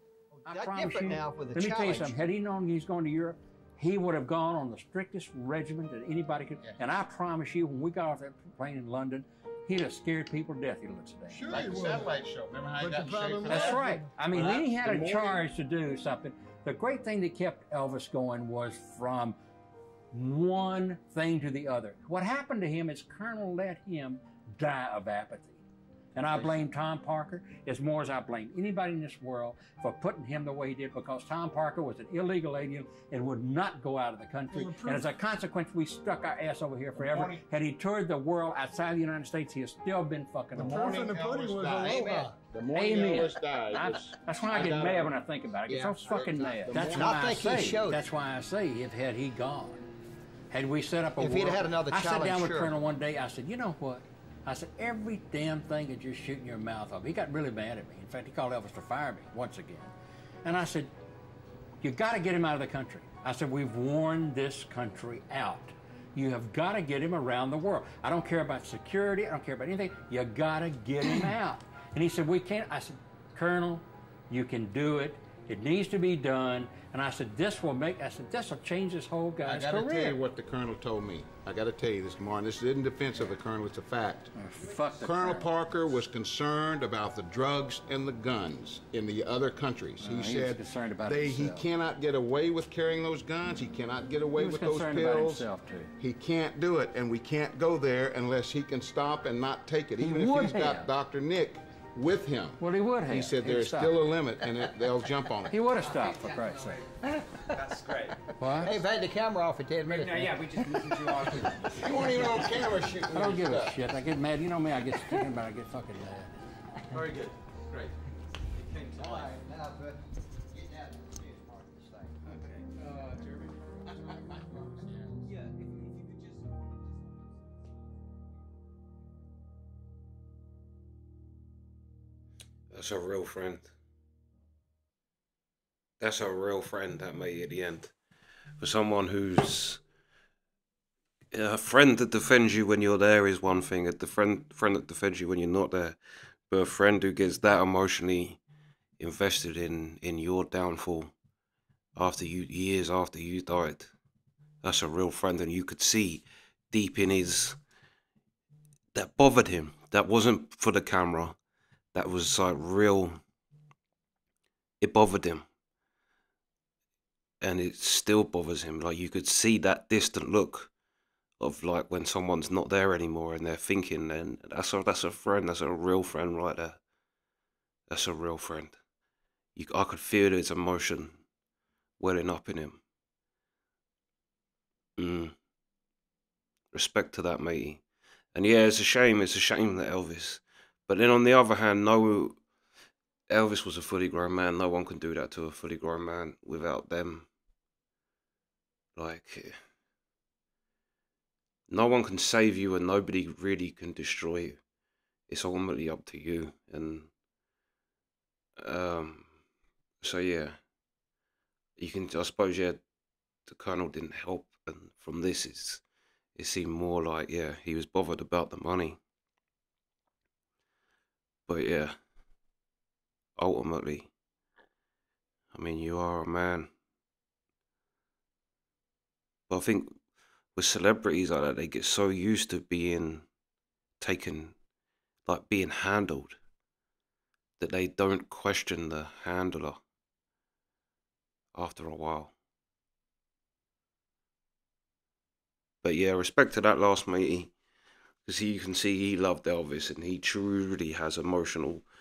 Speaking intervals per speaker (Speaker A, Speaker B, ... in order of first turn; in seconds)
Speaker A: 0.4-2.2, 11.6-12.1, 12.8-15.2, 40.6-42.5, 45.7-46.2, 46.7-48.0, 51.2-52.7, 106.0-106.4, 107.5-113.1, 119.0-120.0, 120.5-122.4, 123.9-125.2
Speaker B: 0.5-11.4, 13.5-19.4, 20.1-25.6, 26.1-41.1, 42.7-49.8, 50.5-59.9, 60.4-60.9, 61.8-80.2, 84.4-85.5, 90.0-91.7, 94.3-95.9, 100.0-100.9, 102.6-104.0, 105.5-106.8, 108.4-108.8, 110.1-112.3, 113.1-116.3
Speaker C: 11.3-15.0, 37.0-37.4, 40.6-45.1, 46.0-46.8, 79.5-84.3, 84.9-95.5, 96.0-105.6, 111.8-113.8
Speaker D: 107.6-108.2, 117.0-117.9, 118.5-119.4, 122.5-123.5, 125.3-125.6
Speaker E: 132.7-133.7, 136.0-137.9, 138.6-139.8, 141.3-146.0, 146.5-148.4, 149.0-151.1, 152.0-153.9, 154.6-157.6, 158.9-161.4, 161.9-163.2, 164.8-165.5, 167.4-170.7, 171.4-176.8, 177.9-178.8, 179.6-181.2, 182.0-182.8, 185.0-185.4, 186.7-187.8, 188.3-192.4, 193.3-197.3, 199.0-199.5, 201.7-204.6, 205.3-207.1, 208.6-209.3, 210.0-210.6, 211.8-212.8, 213.5-215.8, 216.4-219.0, 221.5-221.9, 223.4-224.1, 225.5-226.7, 229.5-230.0, 230.6-233.3, 234.0-234.6, 235.3-236.4, 237.6-239.8, 241.5-242.3, 245.8-247.5, 248.3-251.8